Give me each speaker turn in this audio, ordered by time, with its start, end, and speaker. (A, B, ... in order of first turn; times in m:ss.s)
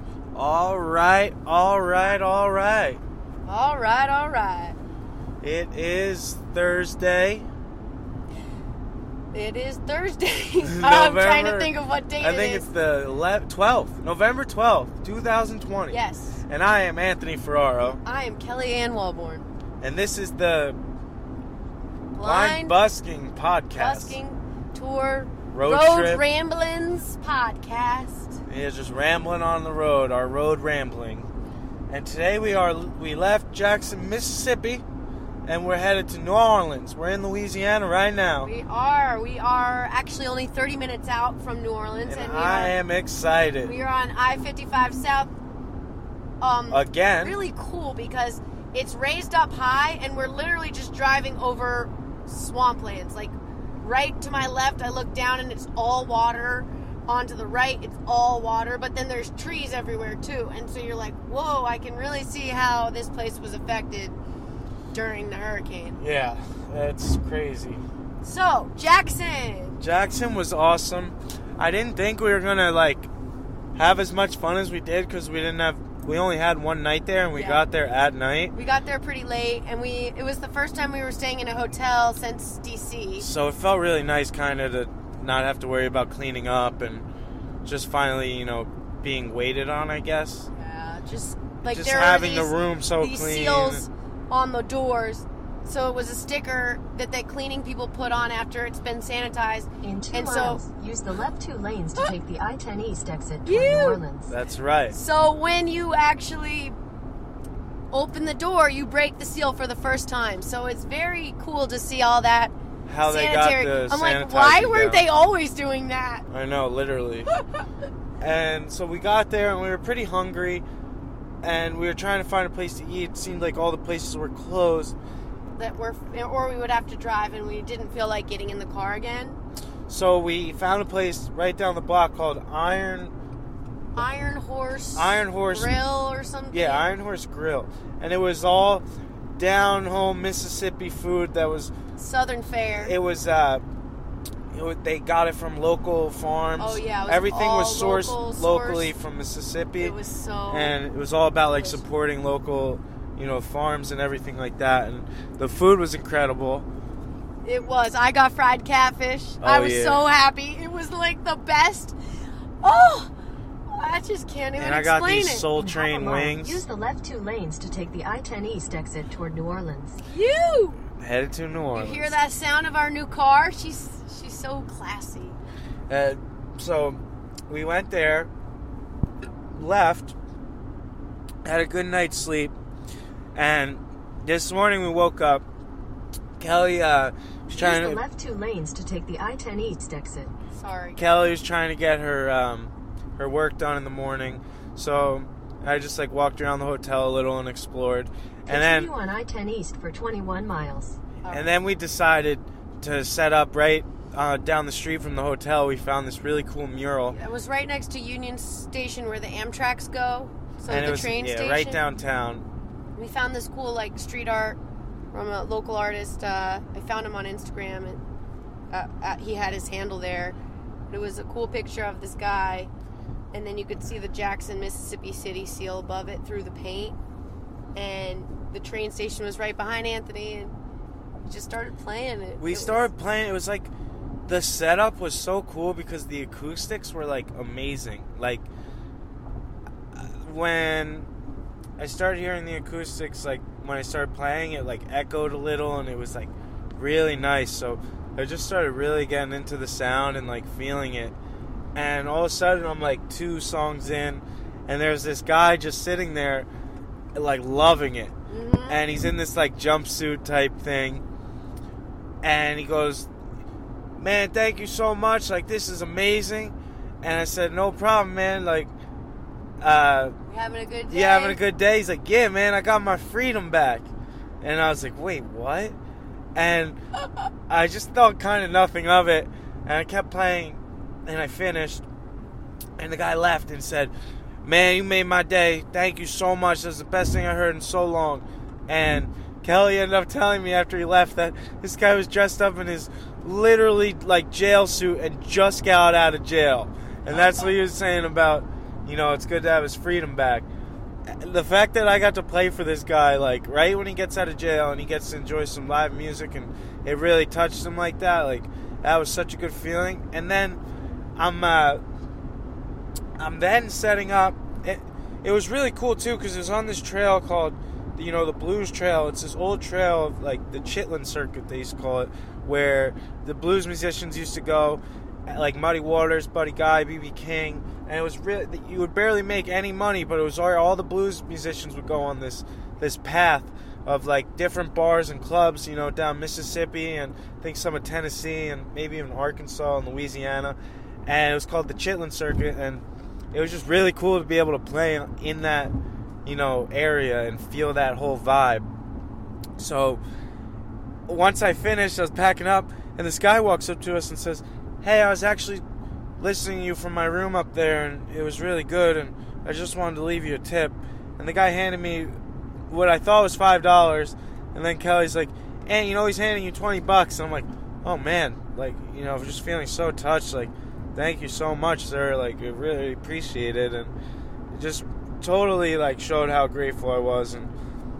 0:00.3-0:03.0 A
0:03.4-0:04.8 B
0:05.4-0:07.5 A
0:09.3-0:12.7 B
0:10.6-0:18.0 A
0:15.9-0:16.4 B
0:18.0-0:19.4 B
0:19.8-0:20.8 A
0:22.1-0:22.8 B
0:22.2-0:24.2 A
0:23.7-0:28.4 B
0:25.5-0:26.2 A
0:28.5-0:31.3 A
0:31.9-0:34.8 A
0:35.4-0:38.5 A
0:38.4-0:42.7 B
0:42.1-0:43.7 A
0:43.6-0:45.3 B
0:46.4-1:04.2 B
0:46.7-0:47.4 A
1:04.9-1:06.0 B
1:06.0-1:07.8 A
1:08.2-1:09.8 B
1:09.8-1:13.1 A
1:13.8-1:18.5 A
1:17.3-1:17.6 B
1:18.5-1:23.3 B
1:23.2-1:27.0 A
1:27.6-1:30.5 A
1:30.5-1:40.6 B
1:31.6-1:33.8 A
1:39.8-1:44.4 C
1:43.4-1:44.0 B
1:44.3-1:45.0 A
1:44.9-1:46.8 B
1:47.9-1:56.2 B
1:52.9-1:55.0 A
1:56.3-1:57.3 A
1:58.2-2:00.6 A
2:01.4-2:05.0 A
2:05.5-2:09.4 B
2:09.9-2:13.1 A
2:13.9-2:16.9 B
2:14.9-2:15.7 A
2:16.5-2:18.8 A
2:19.4-2:21.7 A
2:22.0-2:23.0 B
2:22.8-2:23.6 A
2:24.5-2:29.9 A
2:26.6-2:28.9 B
2:29.8-2:30.8 B
2:30.5-2:36.6 A
2:31.5-2:31.8 B
2:37.4-2:42.0 B
2:39.4-2:40.0 A
2:42.6-2:43.1 B
2:43.7-2:45.5 B
2:44.6-2:46.6 A
2:45.5-2:50.0 C
2:50.0-2:50.8 B
2:51.0-2:52.2 A
2:51.7-2:55.4 B
2:55.9-2:58.3 A
2:59.5-3:00.2 A
3:01.4-3:02.5 A
3:03.3-3:05.4 A
3:06.4-3:08.0 A
3:07.6-3:10.3 C
3:10.5-3:11.2 B
3:11.0-3:18.9 A
3:18.5-3:21.0 C
3:21.2-3:21.5 B
3:21.3-3:27.2 A
3:27.1-3:31.8 B
3:30.6-3:32.4 A
3:33.0-3:34.6 B
3:35.1-3:38.0 B
3:38.7-3:40.4 B
3:40.9-3:42.7 B
3:43.3-3:47.0 B
3:47.7-3:50.5 B
3:51.3-3:52.9 B
3:52.4-3:53.7 A
3:54.3-3:58.5 A
3:59.9-4:01.1 A
4:01.8-4:11.1 A
4:11.7-4:16.5 A
4:17.1-4:18.1 A
4:18.3-4:18.8 B
4:18.7-4:21.0 A
4:22.2-4:23.1 A
4:24.0-4:28.7 A
4:29.6-4:30.2 A
4:30.3-4:31.4 B
4:30.9-4:33.9 A
4:34.4-4:35.8 A
4:36.3-4:36.8 A
4:37.5-4:41.8 A
4:42.8-4:43.9 A
4:44.4-5:00.5 A
4:57.1-4:57.5 B
5:01.1-5:10.6 A
5:11.2-5:11.8 A
5:13.2-5:45.7 A
5:46.2-5:48.7 A
5:49.6-5:50.0 A
5:51.1-5:55.6 A
5:56.2-6:02.2 A
6:02.7-6:13.9 A
6:14.5-6:17.5 A